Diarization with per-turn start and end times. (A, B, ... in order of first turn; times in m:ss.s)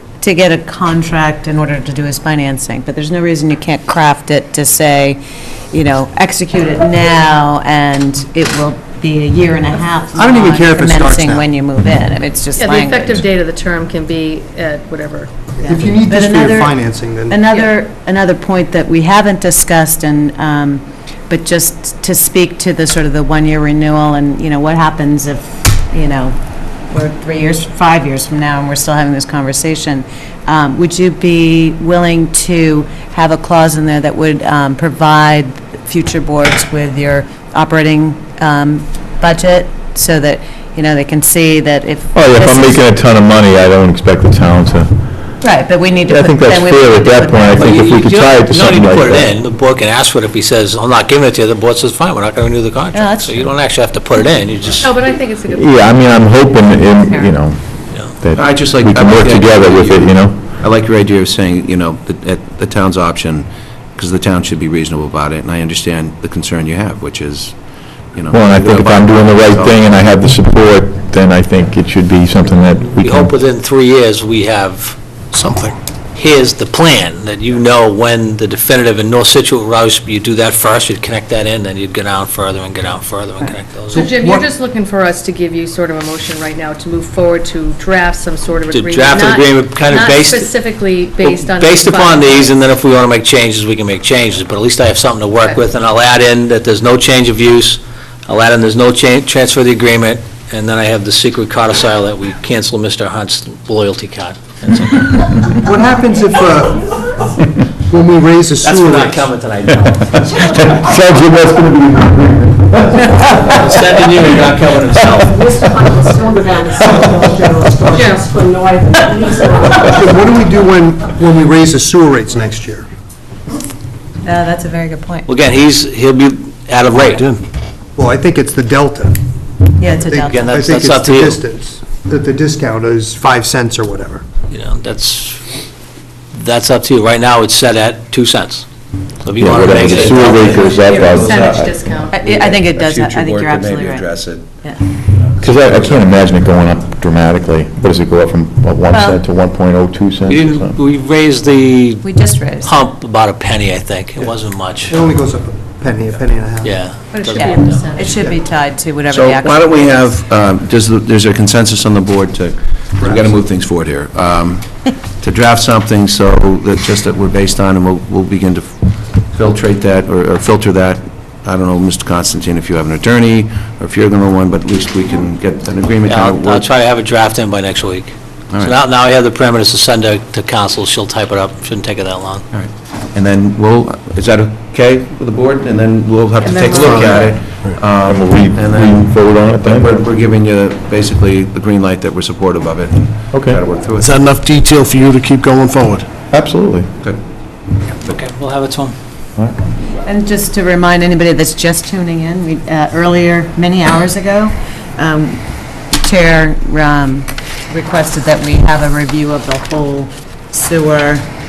0:00.2-0:05.2 A
0:05.7-0:13.2 A
0:10.2-0:11.5 B
0:12.6-0:15.5 C
0:15.6-0:17.4 B
0:15.6-0:26.4 A
0:26.9-0:42.8 A
0:42.2-0:45.2 D
0:45.4-0:48.0 A
0:46.0-0:49.3 D
0:47.6-0:55.0 E
0:52.9-0:53.5 A
0:54.8-0:57.3 C
0:55.5-1:00.6 D
0:58.3-1:07.6 F
1:08.1-1:09.9 F
1:08.3-1:13.3 D
1:13.0-1:15.0 E
1:15.3-1:15.8 G
1:16.2-1:24.1 E
1:23.9-1:32.5 C
1:24.0-1:24.5 B
1:28.7-1:30.5 E
1:31.2-1:45.5 E
1:45.6-1:46.9 B
1:47.9-1:49.2 B
1:48.6-1:50.5 E
1:50.3-1:53.9 D
1:53.1-1:55.5 E
1:55.4-2:00.0 H
1:57.9-1:58.4 C
1:59.8-2:02.9 B
2:04.2-2:05.3 A
2:05.3-2:07.3 E
2:06.9-2:07.4 G
2:08.0-2:09.2 B
2:09.8-2:10.4 A
2:10.0-2:14.2 B
2:10.2-2:11.4 E
2:14.5-2:15.4 E
2:16.3-2:18.7 E
2:19.2-2:20.8 E
2:19.4-2:21.7 D
2:19.6-2:24.6 F
2:20.2-2:22.1 C
2:22.1-2:24.8 A
2:25.2-2:26.4 F
2:25.4-2:30.8 D
2:28.9-2:29.2 A
2:30.3-2:35.0 E
2:32.0-2:32.9 A
2:34.9-2:36.9 B
2:36.6-2:38.1 E
2:37.1-2:40.2 A
2:37.2-2:38.2 C
2:39.1-2:56.7 F
2:43.0-2:43.3 B
2:56.1-3:02.5 E
3:02.5-3:14.2 F
3:06.4-3:07.3 A
3:08.0-3:10.0 D
3:13.3-3:13.6 D
3:13.9-3:16.1 G
3:16.3-3:16.9 D
3:18.0-3:19.0 E
3:20.0-3:25.4 A
3:25.9-3:31.2 A